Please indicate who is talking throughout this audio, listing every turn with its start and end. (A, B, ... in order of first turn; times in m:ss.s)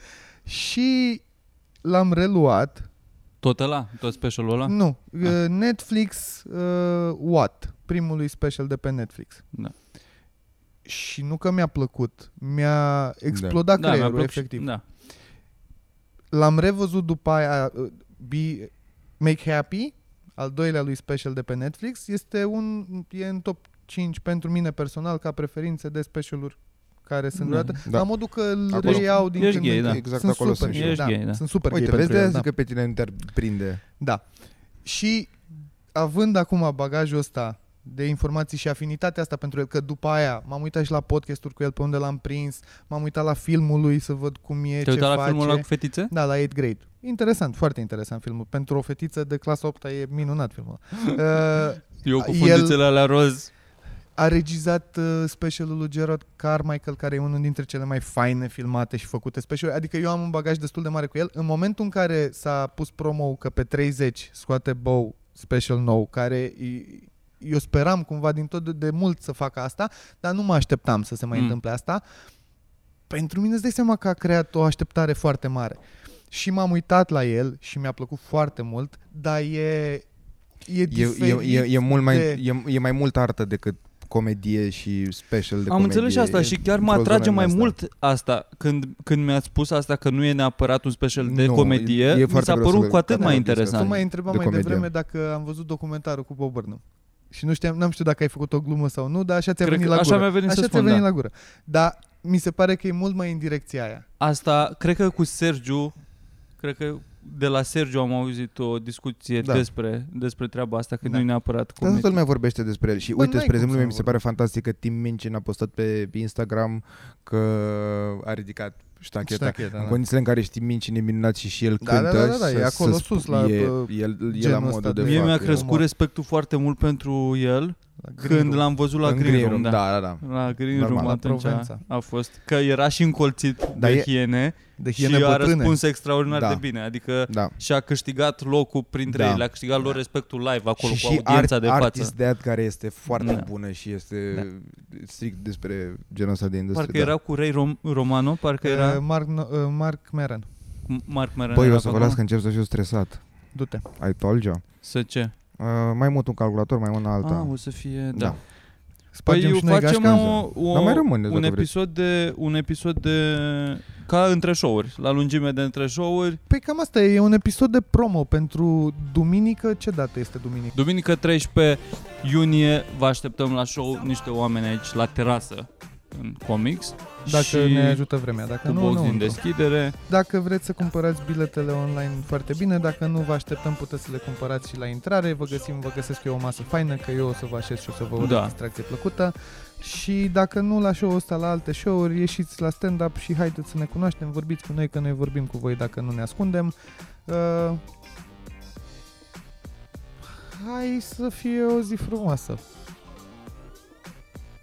0:00.5-0:01.2 A
0:01.8-0:02.9 A
0:03.4-0:05.4 B
0:04.7-0:09.4 A
0:10.9-0:14.7 A
0:13.3-0:13.6 C
0:13.7-0:14.8 B
0:16.3-0:32.5 A
0:27.4-0:27.8 B
0:28.7-0:31.1 C
0:28.8-0:31.4 B
0:31.7-0:33.8 C
0:34.0-0:34.2 A
0:34.8-0:35.3 A
0:35.9-0:52.8 A
0:44.8-0:46.1 B
0:52.0-0:53.5 B
0:54.2-1:12.0 A
1:13.1-1:15.8 A
1:16.3-1:20.1 A
1:20.7-1:22.4 A
1:20.9-1:27.8 C
1:25.7-1:34.0 B
1:31.2-1:34.9 C
1:33.2-1:44.0 A
1:39.6-1:41.1 B
1:44.2-1:45.9 B
1:46.6-1:52.2 B
1:51.8-2:05.7 C
1:53.2-1:54.2 A
1:59.2-2:00.0 A
2:01.8-2:05.9 A
2:05.0-2:22.1 B
2:08.0-2:08.6 A
2:09.0-2:11.2 C
2:11.0-2:11.8 A
2:13.8-2:14.1 C
2:14.8-2:15.8 A
2:16.3-2:16.6 C
2:17.3-2:17.5 C
2:19.1-2:20.0 C
2:20.8-2:27.1 C
2:23.1-2:23.5 B
2:26.7-2:29.0 B
2:28.6-2:30.5 A
2:30.9-2:32.2 B
2:31.5-2:33.2 C
2:33.5-2:33.9 A
2:34.0-2:34.6 C
2:34.8-2:35.3 B
2:35.6-2:37.6 C
2:37.2-2:38.4 B
2:38.1-2:38.4 C
2:39.1-2:40.3 A
2:39.3-2:46.4 B
2:40.0-2:41.7 C
2:46.5-2:50.7 A
2:50.7-2:58.0 B
2:57.3-2:59.4 A
2:58.6-3:00.0 B
3:00.1-3:16.7 A
3:08.2-3:08.5 B
3:17.3-3:17.8 A
3:20.3-3:22.6 A